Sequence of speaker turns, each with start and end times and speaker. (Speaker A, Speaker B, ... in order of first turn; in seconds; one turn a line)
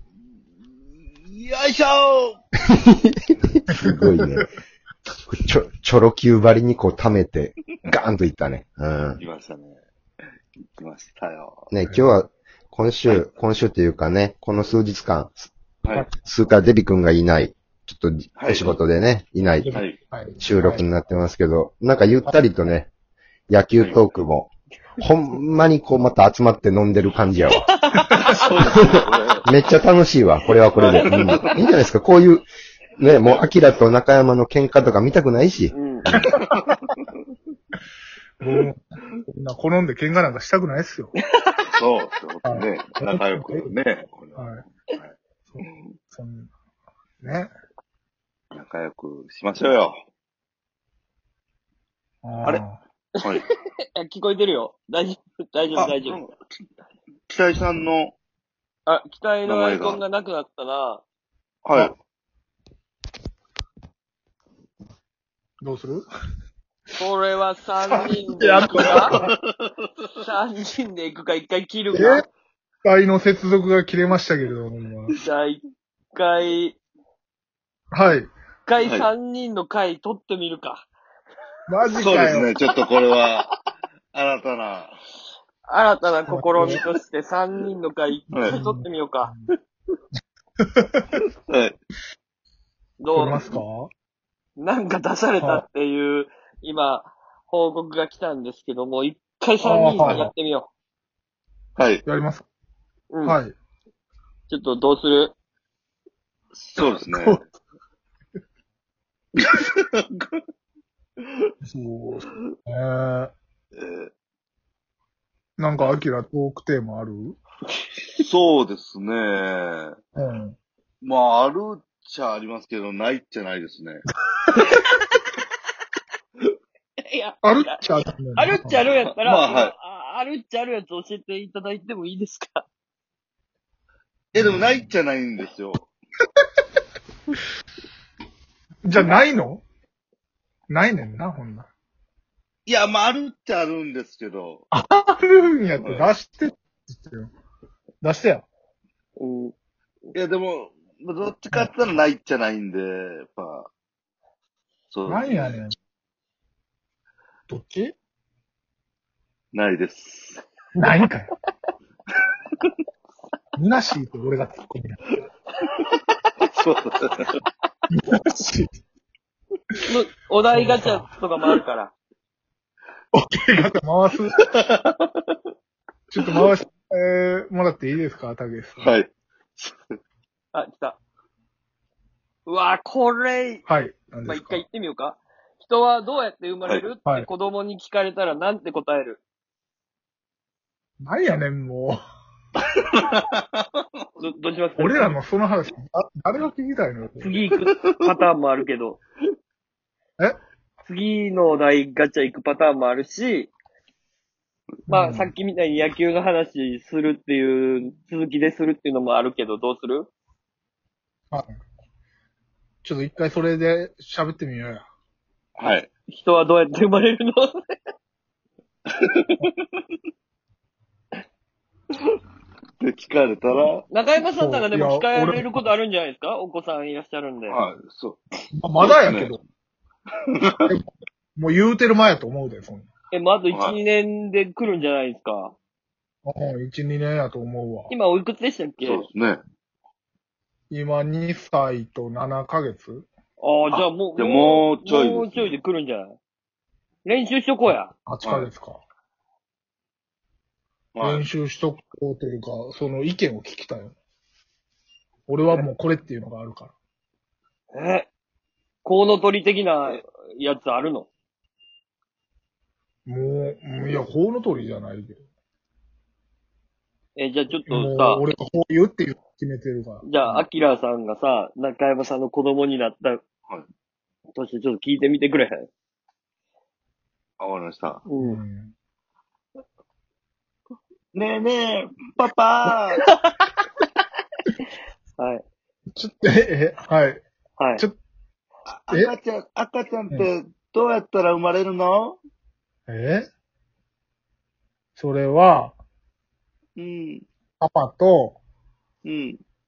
Speaker A: 1.1-2.4
Speaker B: 2.7-4.5
Speaker C: 3.7-4.5
Speaker B: 5.3-9.2
Speaker A: 9.2-9.8
Speaker A: 10.7-11.7
Speaker B: 11.7-15.5
Speaker C: 11.8-12.1
Speaker B: 16.1-19.8
Speaker A: 18.4-18.8
Speaker C: 19.6-20.9
Speaker A: 19.7-20.0
Speaker B: 20.4-22.9
Speaker B: 23.5-27.7
Speaker A: 23.8-24.0
Speaker D: 27.7-28.8
Speaker A: 28.4-29.4
Speaker B: 29.4-32.5
Speaker D: 30.8-31.6
Speaker A: 30.9-31.6
Speaker B: 33.0-36.3
Speaker D: 35.7-36.1
Speaker C: 36.2-36.8
Speaker A: 36.3-37.1
Speaker C: 38.4-41.1
Speaker D: 41.2-41.6
Speaker A: 41.7-45.1
Speaker C: 42.5-43.7
Speaker C: 44.4-44.6
Speaker C: 45.5-46.5
Speaker C: 47.2-47.5
Speaker A: 48.5-50.0
Speaker C: 52.2-52.8
Speaker A: 53.2-53.5
Speaker D: 54.0-56.2
Speaker A: 55.8-56.4
Speaker A: 57.3-58.1
Speaker D: 58.9-61.0
Speaker A: 59.5-60.0
Speaker A: 61.6-61.9
Speaker C: 65.6-66.0
Speaker D: 67.0-69.1
Speaker C: 68.2-69.3
Speaker A: 68.7-69.7
Speaker D: 70.2-72.2
Speaker C: 71.9-72.2
Speaker C: 72.8-75.2
Speaker D: 75.2-75.6
Speaker D: 76.1-76.8
Speaker C: 77.9-78.3
Speaker D: 78.7-80.9
Speaker A: 78.8-79.0
Speaker C: 81.7-82.5
Speaker A: 81.9-83.5
Speaker A: 84.1-85.0
Speaker D: 85.7-89.3
Speaker C: 86.3-86.8
Speaker A: 88.3-88.6
Speaker C: 88.5-89.4
Speaker C: 90.9-91.2
Speaker A: 91.5-91.8
Speaker D: 93.0-93.5
Speaker C: 93.1-93.9
Speaker D: 94.6-100.7
Speaker C: 95.4-95.7
Speaker C: 99.6-100.3
Speaker A: 101.8-102.0
Speaker C: 102.1-102.4
Speaker D: 103.1-103.4
Speaker C: 103.2-103.5
Speaker D: 104.5-105.3
Speaker A: 106.5-107.4
Speaker C: 106.8-107.4
Speaker A: 109.4-110.4
Speaker C: 111.6-113.3
Speaker A: 113.8-114.1
Speaker C: 115.6-117.4
Speaker A: 118.2-120.0
Speaker C: 120.2-120.6
Speaker A: 121.0-124.0
Speaker C: 124.4-124.8
Speaker D: 127.0-127.8
Speaker C: 127.4-128.8
Speaker D: 128.3-132.7
Speaker A: 129.1-129.7
Speaker A: 134.3-135.9
Speaker C: 134.4-134.8
Speaker C: 138.8-139.6
Speaker C: 140.7-141.7
Speaker A: 142.7-144.6
Speaker C: 144.7-147.3
Speaker A: 145.8-146.1
Speaker C: 148.0-148.5
Speaker D: 149.2-149.5
Speaker A: 150.1-153.7
Speaker C: 151.5-151.9
Speaker A: 154.9-155.6
Speaker C: 155.1-155.8
Speaker C: 157.5-157.9
Speaker A: 159.5-160.4
Speaker C: 160.8-161.3
Speaker C: 163.6-165.2
Speaker D: 165.7-166.2
Speaker A: 166.5-167.4
Speaker C: 167.9-168.7
Speaker D: 169.9-171.9
Speaker C: 170.5-171.1
Speaker C: 173.1-174.4
Speaker A: 174.5-175.0
Speaker C: 176.1-179.0
Speaker A: 178.8-179.9
Speaker D: 180.5-181.0
Speaker D: 182.5-183.6
Speaker C: 183.7-184.6
Speaker D: 184.2-189.2
Speaker C: 191.0-192.0
Speaker A: 192.6-194.0
Speaker D: 194.2-195.2
Speaker C: 194.8-197.3
Speaker D: 197.2-199.0
Speaker D: 200.9-203.5
Speaker C: 204.9-205.3
Speaker D: 204.9-210.1
Speaker C: 212.8-214.9
Speaker A: 215.6-215.9
Speaker D: 216.1-217.5
Speaker A: 218.9-219.8
Speaker A: 222.8-223.8
Speaker D: 223.9-227.6
Speaker C: 224.3-225.5
Speaker A: 227.5-228.2
Speaker C: 228.5-229.4
Speaker A: 228.8-229.3
Speaker A: 230.4-230.7
Speaker C: 230.7-232.9
Speaker D: 233.1-235.5
Speaker A: 233.5-233.8
Speaker C: 236.2-237.9
Speaker D: 237.9-239.1
Speaker A: 238.8-239.4
Speaker C: 240.7-243.1
Speaker D: 243.4-246.2
Speaker A: 243.7-245.6
Speaker D: 247.1-247.9
Speaker C: 247.7-248.8
Speaker A: 248.2-248.5
Speaker A: 250.9-251.3
Speaker C: 251.0-253.9
Speaker C: 255.3-256.7
Speaker D: 257.7-258.1
Speaker D: 258.8-261.1
Speaker C: 263.1-265.2
Speaker D: 267.2-268.2
Speaker C: 267.6-270.4
Speaker D: 270.0-273.2
Speaker D: 274.4-275.7
Speaker A: 277.4-278.0
Speaker D: 278.1-278.4
Speaker C: 278.2-278.7
Speaker A: 281.1-283.0
Speaker D: 285.2-285.4
Speaker C: 285.9-287.2
Speaker D: 287.6-287.9
Speaker A: 288.7-292.2
Speaker C: 292.9-293.3
Speaker C: 295.0-295.8
Speaker A: 296.8-297.2
Speaker C: 297.6-298.4
Speaker A: 299.0-299.4